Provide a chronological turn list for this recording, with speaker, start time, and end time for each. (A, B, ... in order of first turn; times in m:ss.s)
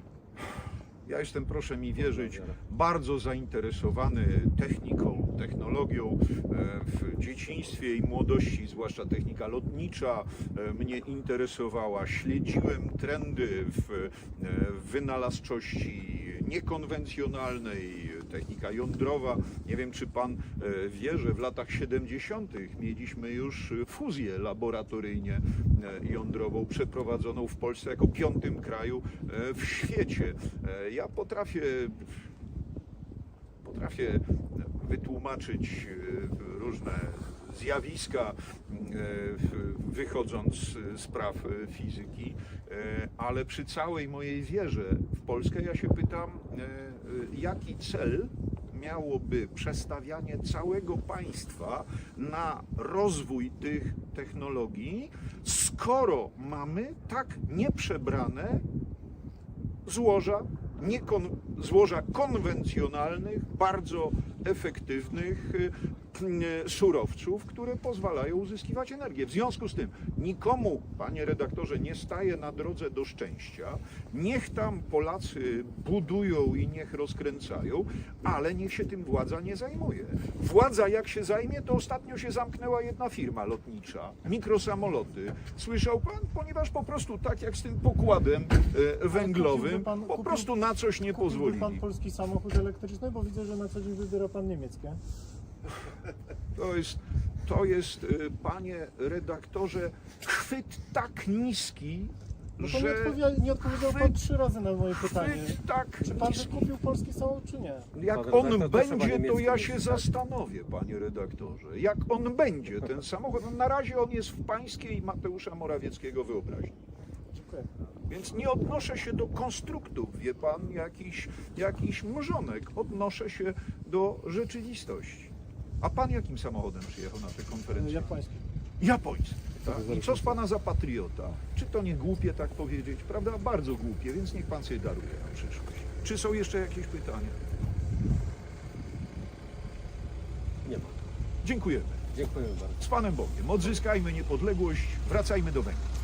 0:01.0-0:32.2 A
0:02.0-0:02.6 B
0:33.6-0:58.6 A
0:59.8-1:31.8 A
1:29.1-1:30.5 C
1:31.1-1:35.0 C
1:36.5-1:44.2 A
1:42.6-1:47.9 C
1:44.9-1:46.7 A
1:47.9-1:56.8 A
1:48.0-1:50.0 B
1:57.3-1:57.7 C
1:58.1-2:08.1 A
2:07.7-2:08.5 C
2:08.8-2:17.4 A
2:09.6-2:10.4 C
2:20.6-2:21.0 B
2:21.4-2:22.0 A
2:22.1-2:22.8 B
2:22.8-2:25.9 A